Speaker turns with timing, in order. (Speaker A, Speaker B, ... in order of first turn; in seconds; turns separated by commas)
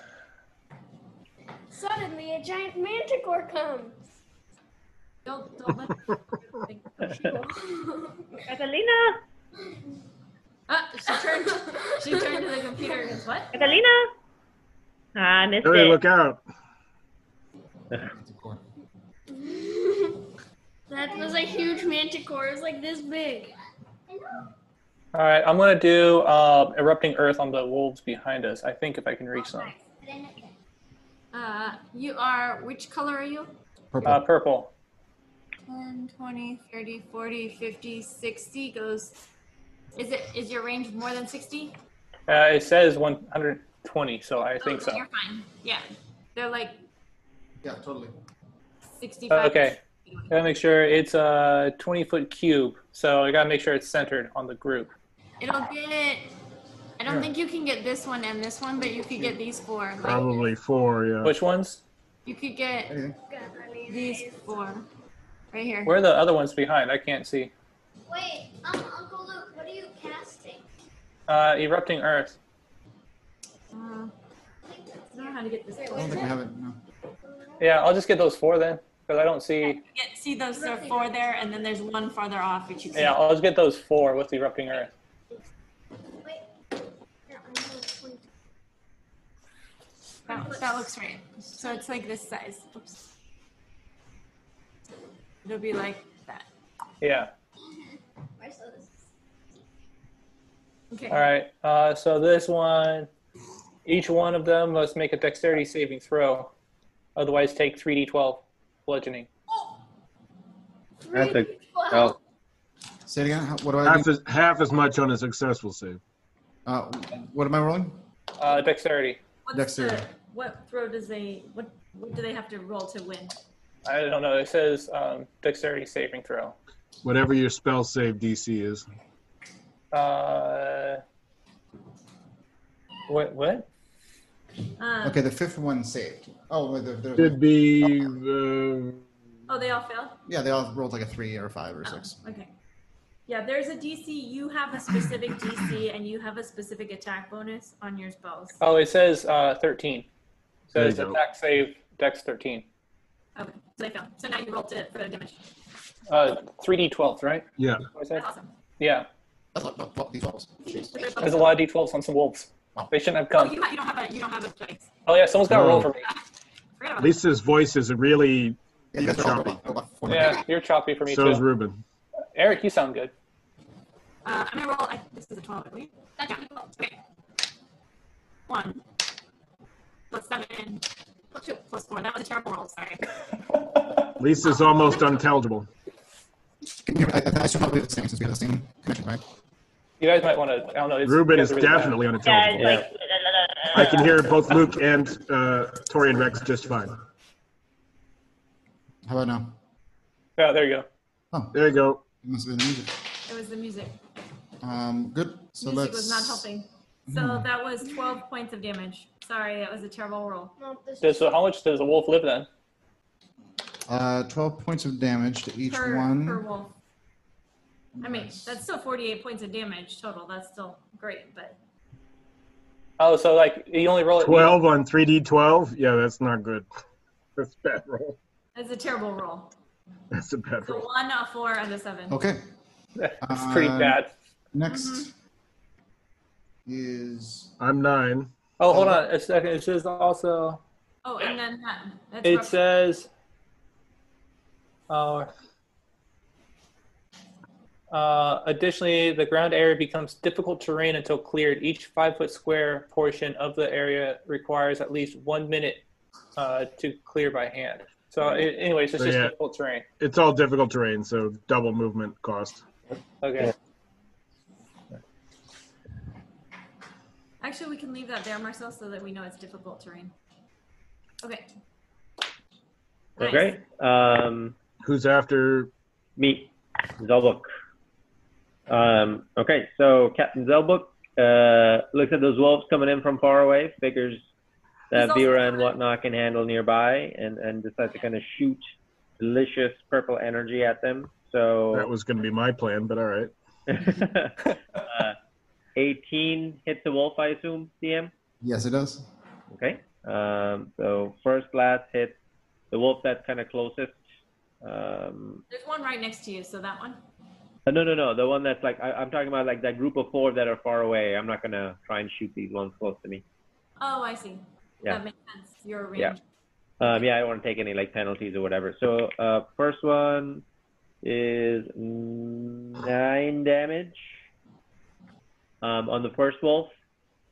Speaker A: 1.7-4.0, Speaker B: 5.2-7.5, Speaker A: 7.2-8.4, Speaker C: 8.5-9.2, Speaker B: 10.7-13.6, Speaker A: 11.1-13.0, Speaker C: 13.5-14.1, Speaker C: 15.1-16.0, Speaker D: 15.6-16.4, Speaker E: 18.0-18.6, Speaker A: 19.3-20.2, Speaker A: 20.9-23.5, Speaker F: 20.9-21.9, Speaker F: 24.1-24.5, Speaker G: 25.1-29.7, Speaker B: 29.4-29.7, Speaker F: 30.0-30.6, Speaker B: 31.3-33.5, Speaker E: 33.9-34.2, Speaker G: 34.0-34.7, Speaker B: 35.6-39.2, Speaker B: 40.0-41.8, Speaker G: 42.3-45.0, Speaker B: 44.6-46.8, Speaker E: 47.6-48.1, Speaker B: 49.0-50.4, Speaker G: 49.3-54.9, Speaker B: 55.4-56.3, Speaker B: 57.0-60.3, Speaker E: 57.0-57.3, Speaker E: 58.8-59.4, Speaker D: 60.0-61.3, Speaker G: 61.2-61.8, Speaker B: 62.2-62.9, Speaker E: 62.9-63.2, Speaker A: 63.3-64.5, Speaker B: 63.9-64.9, Speaker B: 65.5-66.0, Speaker G: 65.8-67.5, Speaker F: 68.0-70.7, Speaker G: 71.3-72.4, Speaker B: 73.7-74.1, Speaker F: 74.6-76.3, Speaker B: 75.1-76.3, Speaker E: 75.9-76.8, Speaker F: 77.2-77.7, Speaker G: 77.6-79.8, Speaker B: 79.6-83.2, Speaker G: 82.9-84.9, Speaker A: 87.3-88.2, Speaker A: 90.3-90.8, Speaker B: 90.3-93.0, Speaker B: 95.4-96.5, Speaker G: 97.0-97.3, Speaker F: 97.6-99.0, Speaker B: 100.9-101.2, Speaker G: 101.1-103.1, Speaker G: 103.8-106.5, Speaker G: 107.2-109.3, Speaker A: 111.0-112.2, Speaker H: 111.1-112.2, Speaker E: 113.0-114.1, Speaker D: 113.8-116.0, Speaker E: 116.7-118.0, Speaker G: 118.4-119.2, Speaker B: 119.4-123.4, Speaker E: 119.5-120.1, Speaker G: 123.8-126.5, Speaker D: 127.0-128.8, Speaker G: 129.9-131.0, Speaker G: 133.1-133.7, Speaker B: 134.8-135.2, Speaker E: 135.0-138.2, Speaker D: 137.2-139.1, Speaker B: 139.5-140.2, Speaker E: 140.2-142.2, Speaker B: 141.8-142.5, Speaker B: 143.3-148.6, Speaker G: 148.6-150.1, Speaker G: 150.7-152.7, Speaker D: 150.7-151.2, Speaker B: 153.3-155.4, Speaker G: 156.1-158.2, Speaker D: 157.6-157.8, Speaker B: 158.1-158.5, Speaker G: 158.8-159.1, Speaker E: 159.5-161.0, Speaker B: 160.9-161.5, Speaker G: 161.2-163.6, Speaker B: 163.3-164.9, Speaker G: 165.1-166.1, Speaker D: 165.5-165.9, Speaker B: 166.8-167.2, Speaker D: 167.0-169.6, Speaker E: 168.9-170.5, Speaker G: 170.1-171.4, Speaker D: 171.1-171.8, Speaker G: 172.3-173.1, Speaker B: 174.2-177.0, Speaker B: 178.5-178.8, Speaker B: 180.1-183.1, Speaker D: 184.2-185.7, Speaker E: 186.8-189.2, Speaker G: 190.0-192.2, Speaker D: 191.0-192.8, Speaker C: 192.2-194.2, Speaker H: 192.6-192.9, Speaker D: 193.7-196.9, Speaker E: 199.0-199.6, Speaker G: 200.4-200.9, Speaker E: 201.3-201.6, Speaker D: 201.5-202.0, Speaker E: 202.2-202.9, Speaker B: 203.2-203.9, Speaker E: 204.6-206.5, Speaker B: 205.6-210.5, Speaker E: 207.1-207.5, Speaker A: 210.6-211.4, Speaker G: 211.0-212.5, Speaker E: 213.9-216.4, Speaker B: 215.7-216.7, Speaker E: 217.9-218.6, Speaker B: 218.0-221.6, Speaker G: 223.0-224.6, Speaker D: 224.2-226.7, Speaker D: 227.3-228.2, Speaker B: 228.5-229.5, Speaker D: 230.1-230.9, Speaker B: 230.6-232.2, Speaker E: 232.1-232.4, Speaker G: 233.0-234.1, Speaker E: 233.2-234.0, Speaker E: 234.5-235.1, Speaker B: 234.7-235.1, Speaker E: 236.7-237.5, Speaker D: 237.6-238.3, Speaker G: 238.6-240.6, Speaker E: 238.7-239.0, Speaker B: 241.0-242.6, Speaker G: 242.2-243.1, Speaker G: 244.9-245.3, Speaker G: 247.9-255.8, Speaker G: 256.4-259.8, Speaker D: 259.0-259.3, Speaker D: 260.0-262.6, Speaker G: 263.2-263.5, Speaker B: 267.4-270.1, Speaker B: 271.2-271.5, Speaker H: 273.2-274.5, Speaker B: 273.2-273.5, Speaker D: 274.8-275.7, Speaker H: 276.2-277.4, Speaker H: 278.7-284.2, Speaker H: 284.9-288.6, Speaker B: 284.9-285.8, Speaker H: 289.2-291.9, Speaker D: 291.7-293.3, Speaker H: 293.7-295.2, Speaker H: 295.8-298.1, Speaker E: 298.4-299.1, Speaker H: 299.5-302.2, Speaker H: 302.7-304.0, Speaker H: 304.6-305.4, Speaker B: 305.5-307.0, Speaker H: 307.6-313.2, Speaker B: 313.8-316.2, Speaker H: 316.8-320.4, Speaker H: 321.0-324.2, Speaker H: 325.6-326.7